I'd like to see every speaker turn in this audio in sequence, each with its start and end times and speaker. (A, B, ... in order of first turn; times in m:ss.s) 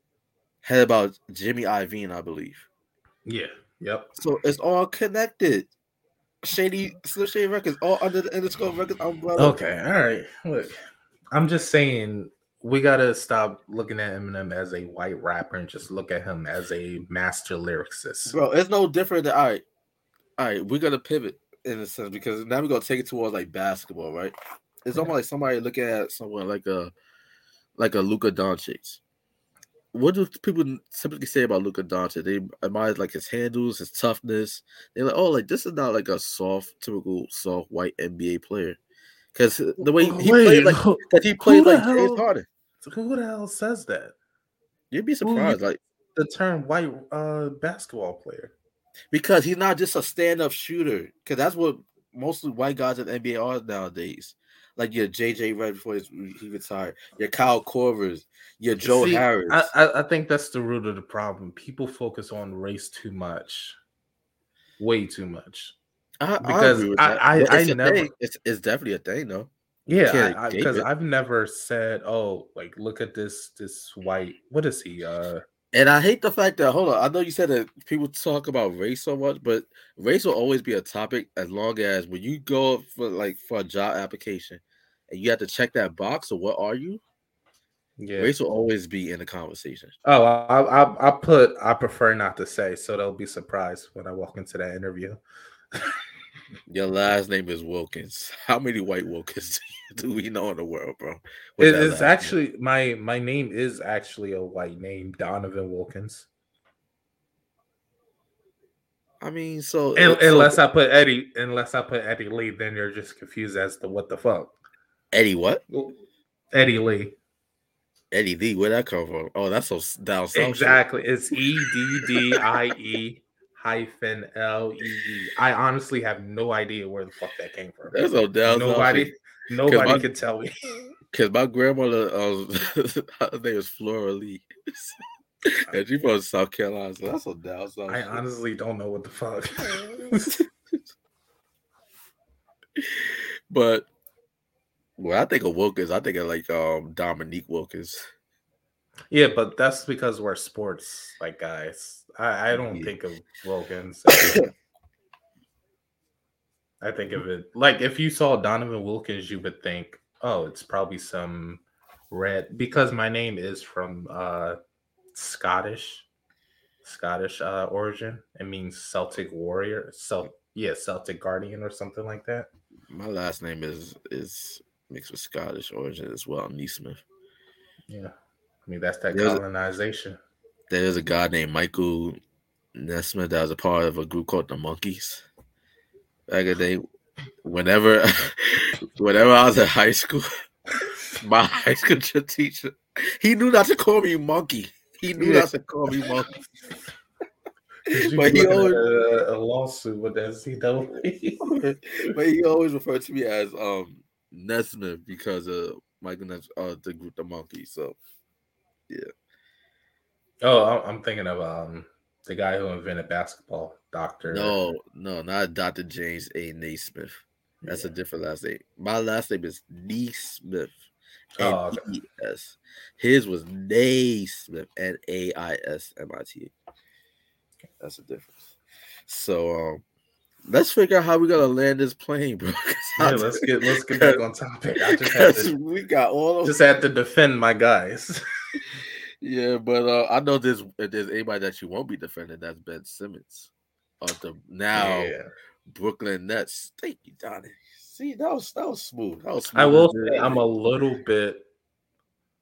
0:00.6-0:02.7 A
0:03.2-0:04.1 B
0:04.2-0:05.7 A
0:06.4-0:09.6 A
0:09.4-0:10.8 B
0:11.3-0:18.4 B
0:18.2-0:19.6 A
0:20.4-0:26.9 A
0:27.8-0:29.0 A
0:29.9-0:38.8 A
0:39.3-0:42.5 A
0:39.8-0:42.2 B
0:42.8-0:44.1 B
0:44.9-0:45.8 A
0:45.2-0:45.6 B
0:46.1-0:48.5 B
0:49.1-0:59.7 A
0:58.8-1:03.8 B
1:04.8-1:05.8 B
1:06.2-1:09.5 A
1:06.4-1:08.1 B
1:09.9-1:15.4 B
1:10.1-1:10.9 A
1:15.7-1:27.0 A
1:28.0-1:28.3 B
1:28.2-1:29.9 A
1:30.0-1:35.2 B
1:35.7-1:36.0 B
1:36.7-1:42.3 A
1:41.6-1:46.3 B
1:49.2-1:50.6 A
1:50.0-1:54.5 B
1:55.1-1:55.6 A
1:55.7-1:56.0 B
1:56.5-1:57.2 B
1:58.1-2:00.8 A
2:00.3-2:10.5 B
2:07.9-2:09.1 A
2:09.6-2:10.0 A
2:11.1-2:18.2 A
2:17.9-2:20.3 B
2:22.8-2:23.9 A
2:25.0-2:28.0 A
2:29.1-2:34.4 B
2:32.5-2:32.9 A
2:34.1-2:34.5 A
2:36.8-2:44.6 B
2:45.1-2:46.1 B
2:46.8-2:52.5 B
2:52.9-2:57.0 A
2:58.6-3:00.2 B
2:59.1-2:59.4 A
3:00.7-3:02.2 A
3:02.7-3:05.2 A
3:06.3-3:06.8 A
3:07.4-3:10.3 A
3:11.2-3:16.3 A
3:15.2-3:15.4 B
3:17.9-3:18.8 A
3:17.9-3:21.4 B
3:21.4-3:28.0 A
3:30.4-3:34.5 B
3:34.3-3:40.8 A
3:41.4-3:41.8 B
3:41.4-3:46.5 A
3:47.8-3:48.4 A
3:49.1-3:49.8 A
3:50.5-3:54.2 A
3:53.0-3:55.5 B
3:55.0-3:56.6 A
3:56.4-3:58.2 B
3:59.2-4:05.1 A
4:04.7-4:05.3 B
4:05.7-4:10.4 A
4:09.5-4:11.4 B